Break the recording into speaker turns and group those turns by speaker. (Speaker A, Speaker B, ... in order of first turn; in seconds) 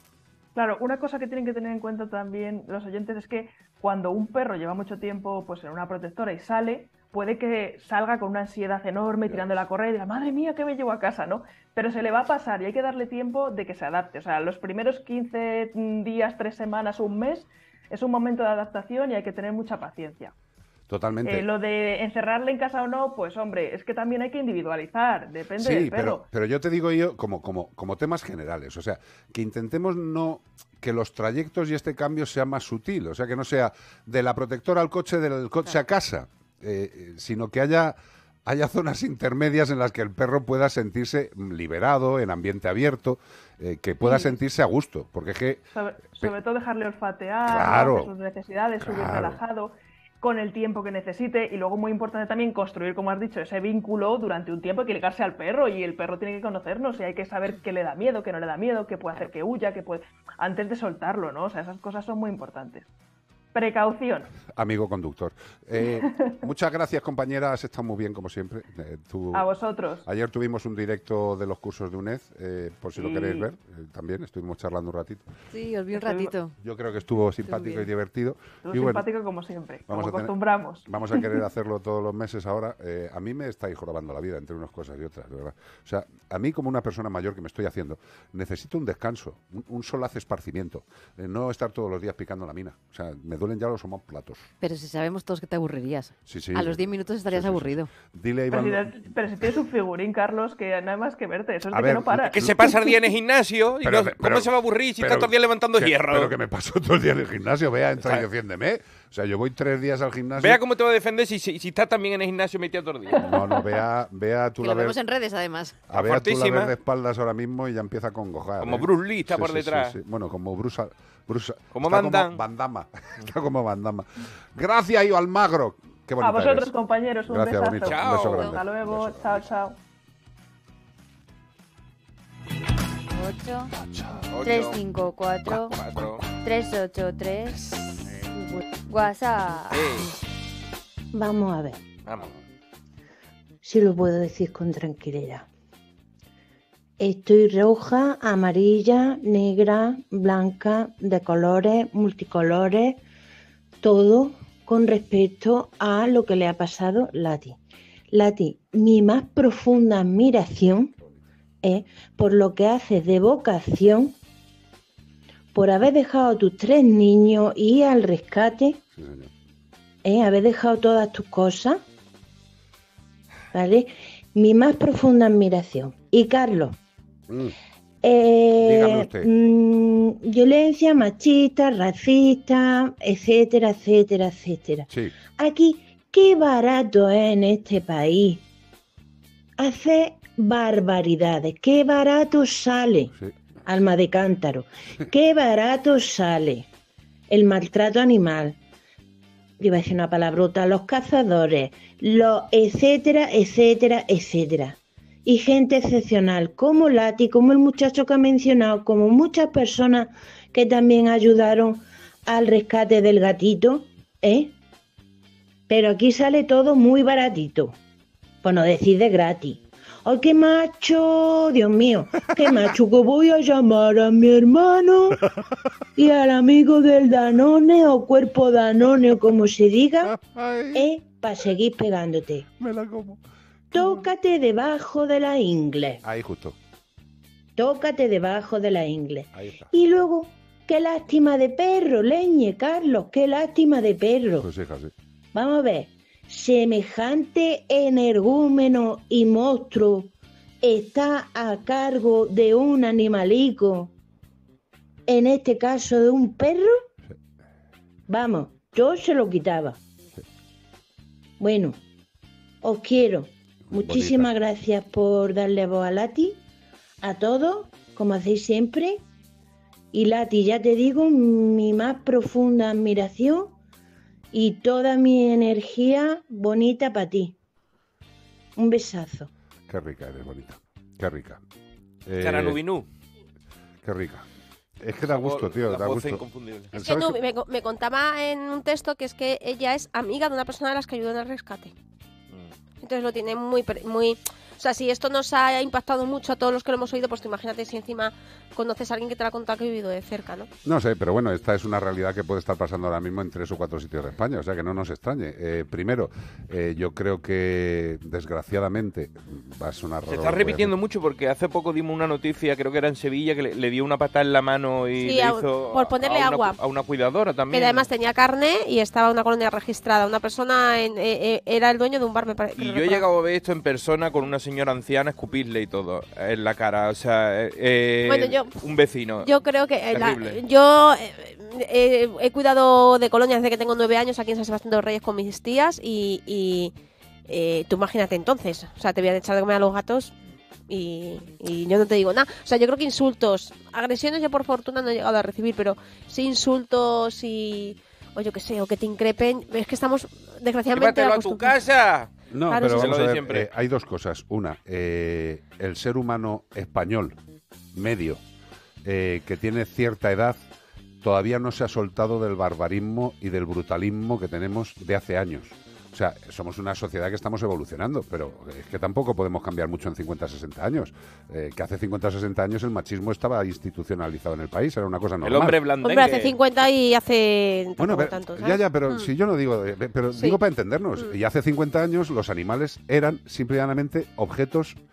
Speaker A: 0.6-20.3, 21.2-26.2, 44.0-44.3, 45.7-62.9, 63.5-64.3, 66.0-66.3, 69.3-70.0, 73.0-73.5, 75.9-76.3, 78.6-81.3, 98.5-102.4, 126.2-129.7
Speaker B: 20.9-21.4, 25.6-45.6, 47.4-48.1, 48.8-49.4, 64.5-69.5, 70.0-75.2, 76.6-79.0, 79.9-80.3, 80.8-94.5, 96.2-98.9, 101.7-102.7, 103.8-110.6, 113.2-115.0, 115.9-126.7, 127.3-129.5, 168.9-169.3, 177.3-177.6, 178.6-179.3, 184.9-185.1, 230.0-230.8, 232.6-233.2, 233.8-234.1, 236.0-236.6, 239.3-239.7, 244.4-244.9, 263.7-264.3, 279.7-281.4, 282.1-282.6, 283.8-284.2, 284.8-286.2, 286.7-287.1, 300.6-310.7, 352.3-357.2, 357.7-358.2, 358.8-360.4, 361.0-375.6, 377.8-384.8
Speaker C: 75.5-76.5, 77.5-77.8, 94.6-97.9, 114.6-115.8
Speaker D: 102.2-106.3, 110.4-113.2, 115.9-116.7, 118.6-120.0, 121.7-122.4, 127.8-128.5, 134.3-134.8, 135.6-136.2, 139.7-140.1, 142.1-142.3, 282.2-282.9, 285.1-286.7, 310.1-317.9, 322.6-329.3, 329.9-330.4, 350.7-353.5, 375.2-376.4
Speaker E: 133.1-133.7, 134.4-135.8, 136.3-137.8, 138.7-140.0
Speaker F: 141.1-141.8, 143.6-145.4, 147.0-153.0, 153.8-157.6, 158.1-160.9, 161.6-164.1, 165.5-168.8, 170.0-171.8, 173.5-176.8, 178.0-188.4, 189.6-193.1, 193.7-196.7, 197.3-198.6, 199.6-214.5, 215.7-217.8, 218.4-225.2, 225.9-230.1, 230.7-232.4, 233.7-236.0, 237.6-244.5, 245.3-250.1, 250.6-253.9, 255.1-256.7, 258.1-259.8, 261.4-261.8, 262.6-266.4, 267.0-269.0, 269.9-273.5, 274.3-277.3, 278.6-279.3
Speaker G: 286.7-291.7, 292.8-300.5, 315.0-316.6, 317.5-323.0, 328.1-328.5, 329.2-336.7, 337.3-340.1, 340.7-351.5, 352.5-352.9, 375.8-379.1